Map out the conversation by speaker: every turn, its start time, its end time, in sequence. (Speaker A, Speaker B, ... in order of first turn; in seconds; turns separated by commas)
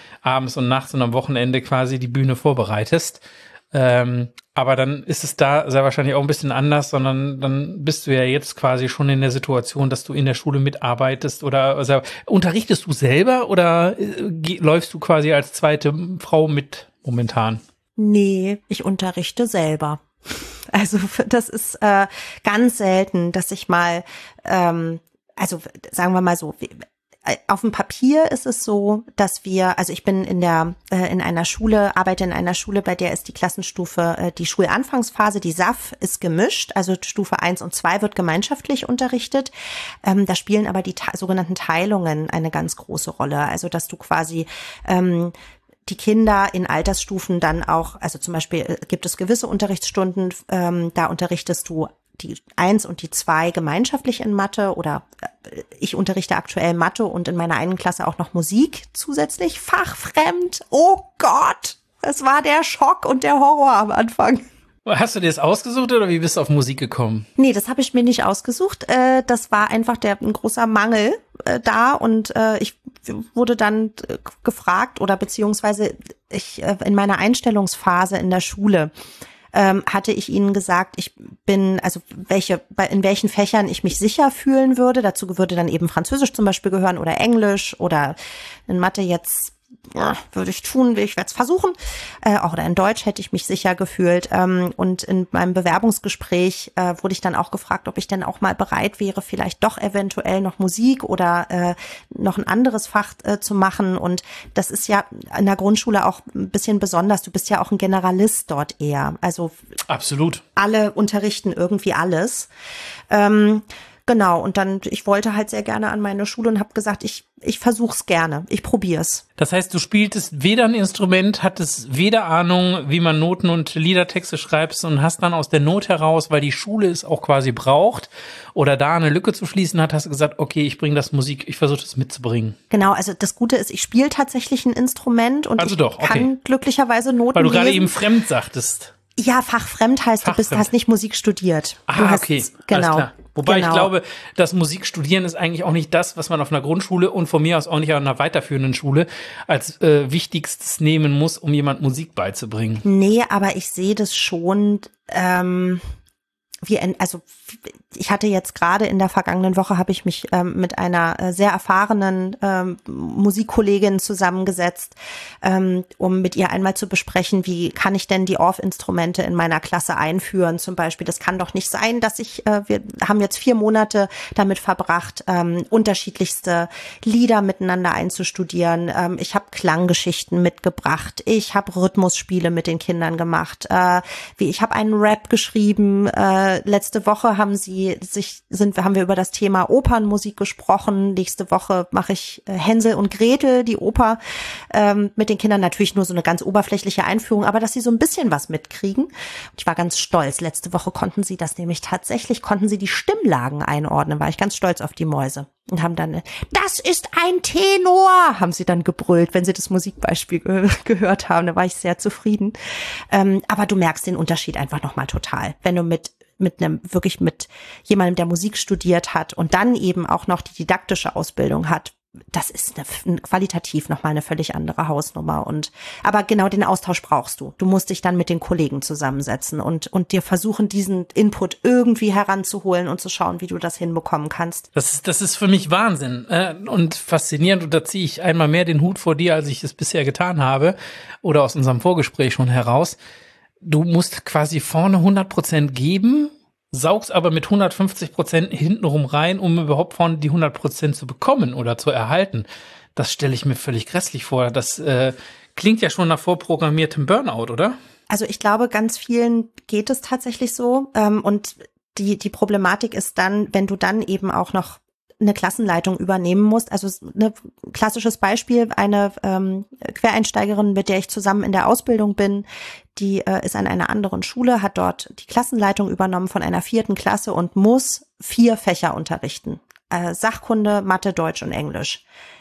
Speaker A: 0.2-17.6, Speaker B: 18.0-39.5, Speaker B: 40.0-45.3, Speaker B: 45.9-64.5, Speaker A: 64.8-67.3, Speaker B: 67.4-78.9, Speaker B: 79.5-88.2, Speaker B: 88.7-109.5, Speaker A: 109.9-110.4, Speaker B: 110.6-112.5, Speaker B: 113.1-119.2, Speaker A: 119.4-132.6, Speaker B: 132.7-137.9, Speaker A: 135.6-136.3, Speaker A: 137.3-138.9, Speaker B: 139.2-143.9, Speaker A: 140.2-140.7, Speaker A: 141.9-152.8, Speaker B: 152.8-155.8, Speaker B: 156.6-194.2, Speaker B: 194.7-212.6, Speaker B: 213.1-234.7, Speaker A: 234.8-243.0, Speaker A: 243.6-257.8, Speaker B: 258.1-282.0